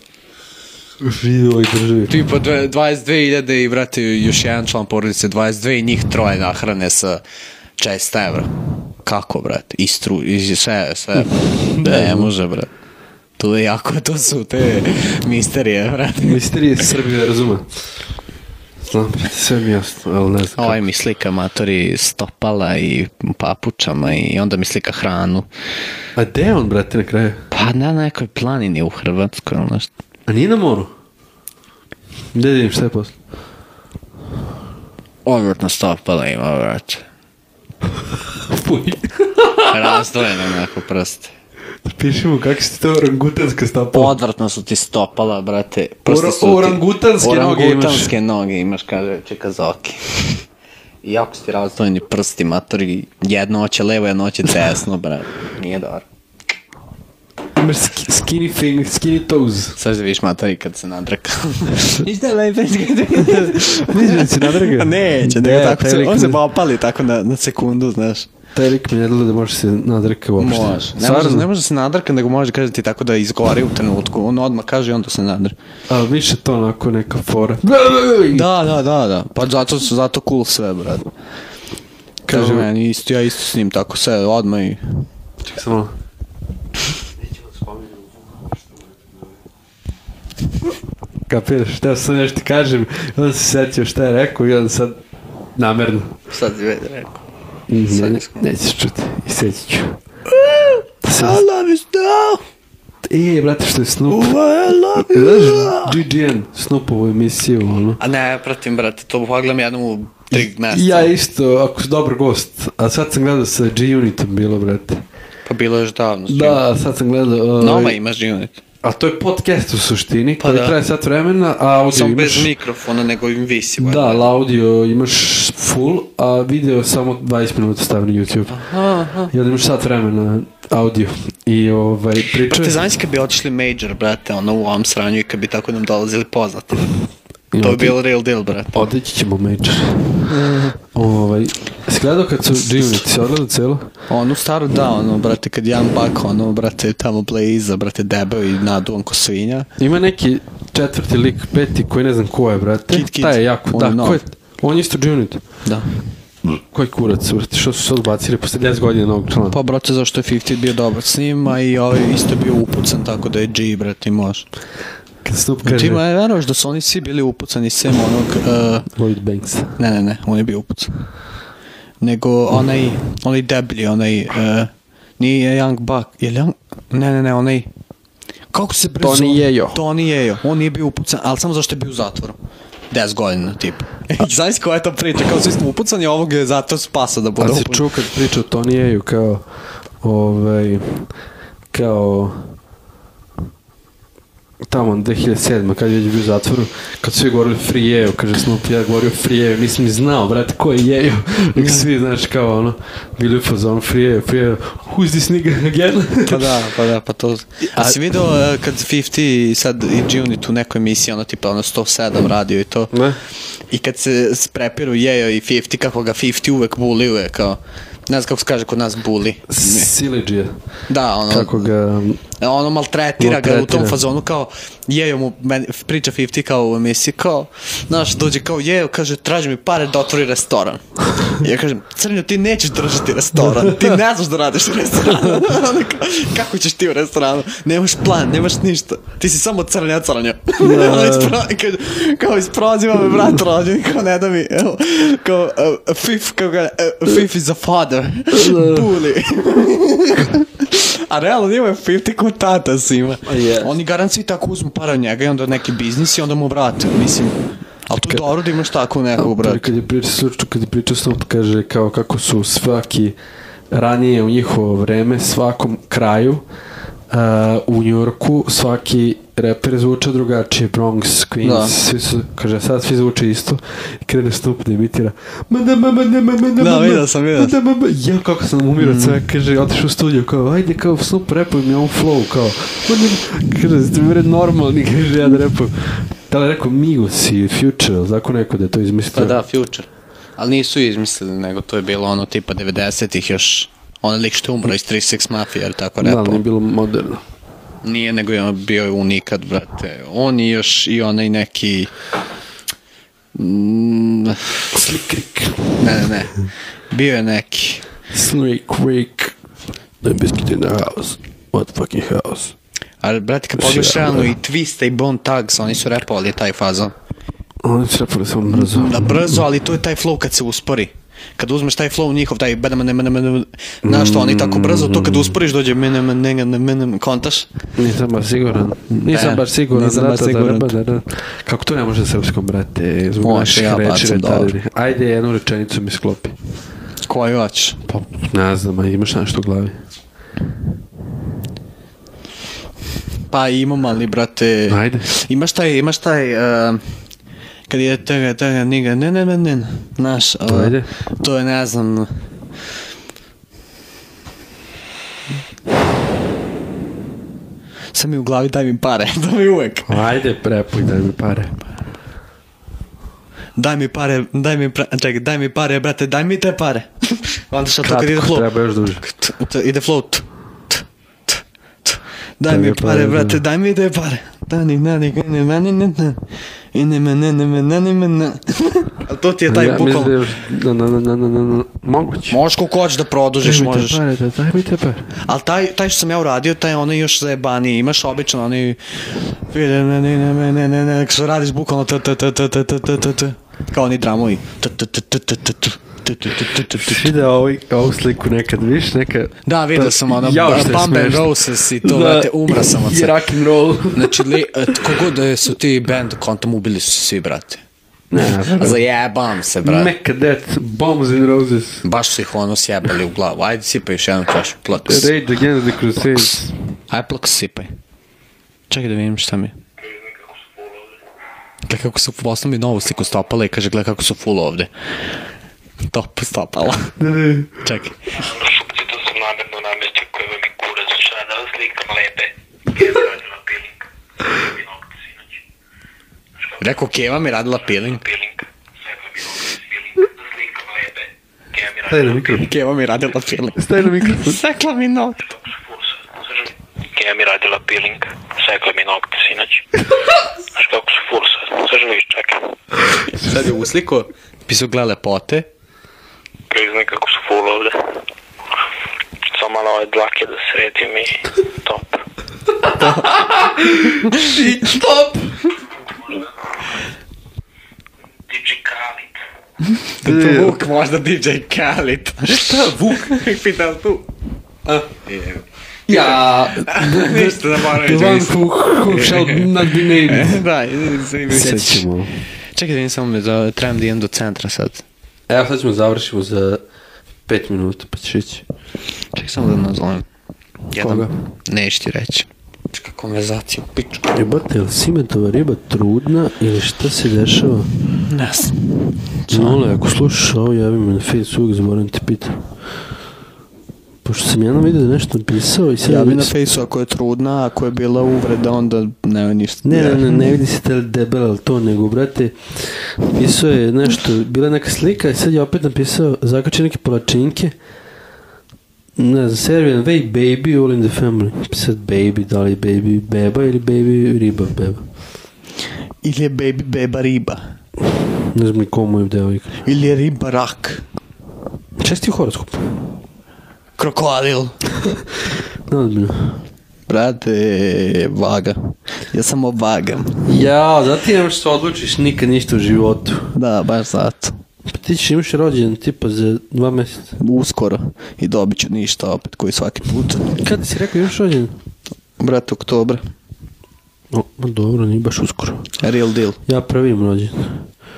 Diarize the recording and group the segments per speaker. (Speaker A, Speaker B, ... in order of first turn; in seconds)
Speaker A: 1.0-2.1, 11.2-12.3, 16.2-17.7, 18.8-20.8, 26.2-27.5, 30.3-30.9, 32.3-33.2, 38.1-40.0, 41.9-44.1, 46.1-48.1, 57.6-59.8, 63.1-66.4, 68.5-71.5, 75.9-78.5, 82.3-82.7, 85.4-85.9, 87.2-89.2, 91.3-95.0, 95.6-96.2, 97.7-100.0, 101.0-101.4, 103.0-104.4, 104.9-108.0, 110.3-115.0, 116.3-118.0, 118.8-122.5, 123.8-128.6, 129.3-132.8, 137.5-138.0, 138.7-140.2, 140.9-143.9, 149.8-155.4, 156.4-159.6, 165.2-166.0, 168.9-169.8, 179.0-179.8, 187.4-189.4, 190.0-191.1, 191.7-192.6, 194.7-206.6, 207.8-208.0, 212.9-213.2, 219.5-220.6, 221.3-222.2, 223.2-224.0, 233.4-234.0, 240.6-241.4, 248.3-248.9, 253.3-253.7, 259.2-263.2, 263.7-266.4, 267.1-289.4, 296.0-297.2, 304.7-305.8, 308.1-309.4, 310.0-312.6, 313.6-314.3, 317.6-319.4, 323.9-325.4, 327.8-336.4, 337.9-339.8, 344.7-345.1, 350.5-350.9, 359.9-361.6, 367.8-369.0, 372.5-373.4, 379.5-382.4, 383.4-385.1, 396.8-405.0, 408.1-408.8, 409.6-411.8, 414.8-416.5, 427.0-427.6, 441.9-442.5, 443.6-444.4, 462.7-465.4, 470.0-470.6, 472.2-473.2, 475.9-480.4, 481.3-482.1, 485.3-486.6, 487.3-488.4, 490.8-491.1, 494.1-497.7, 499.3-502.4, 504.0-506.3, 509.6-517.5, 519.0-524.8, 528.2-529.6, 531.8-532.8, 535.7-536.4, 540.3-543.3, 544.7-547.2, 550.4-551.5, 554.1-555.7, 556.5-557.7
Speaker B: 2.1-7.2, 7.8-8.5, 9.1-12.7, 13.4-16.4, 20.6-25.5, 27.5-29.9, 35.2-37.0, 39.7-41.3, 43.9-50.4, 51.0-56.0, 59.8-68.3, 70.4-75.5, 78.3-81.1, 82.3-84.8, 96.3-97.2, 97.9-98.5, 100.3-102.4, 104.1-106.0, 108.0-111.1, 115.5-116.6, 117.6-118.6, 120.4-120.8, 121.9-124.3, 128.5-129.3, 132.5-136.9, 137.6-138.9, 140.3-140.8, 144.1-149.7, 152.9-154.2, 159.5-164.5, 165.6-168.9, 169.8-170.9, 172.0-177.7, 178.5-182.4, 182.9-187.9, 201.6-201.9, 206.3-212.9, 213.7-219.9, 220.9-221.7, 222.4-257.4, 257.9-259.7, 271.4-271.8, 276.6-277.6, 278.8-279.2, 289.1-296.4, 297.8-301.9, 303.4-304.6, 305.8-307.9, 313.0-316.9, 318.5-327.5, 328.9-330.7, 333.2-334.5, 337.1-337.8, 343.3-346.8, 347.7-352.1, 357.9-360.0, 363.6-376.2, 376.7-380.2, 382.3-384.0, 385.2-397.1, 399.5-403.2, 403.9-407.6, 408.2-409.9, 411.8-415.1, 416.9-417.7, 418.7-419.6, 421.7-424.7, 425.9-426.9, 427.6-428.2, 436.6-438.0, 442.4-445.3, 453.1-455.5, 462.8-463.1, 464.1-464.4, 469.8-474.1, 475.0-481.9, 482.6-484.9, 489.1-490.1, 490.7-494.2, 498.0-499.6, 505.9-510.3, 526.0-527.4, 529.6-530.8, 533.8-534.6, 536.9-540.2, 543.4-544.4, 547.2-550.4, 552.2-553.0, 555.8-556.4
Speaker C: 419.8-421.0, 428.1-435.4, 436.4-436.8, 437.7-442.4, 445.2-449.8, 450.5-452.5, 456.5-458.0, 459.3-462.0, 468.2-469.2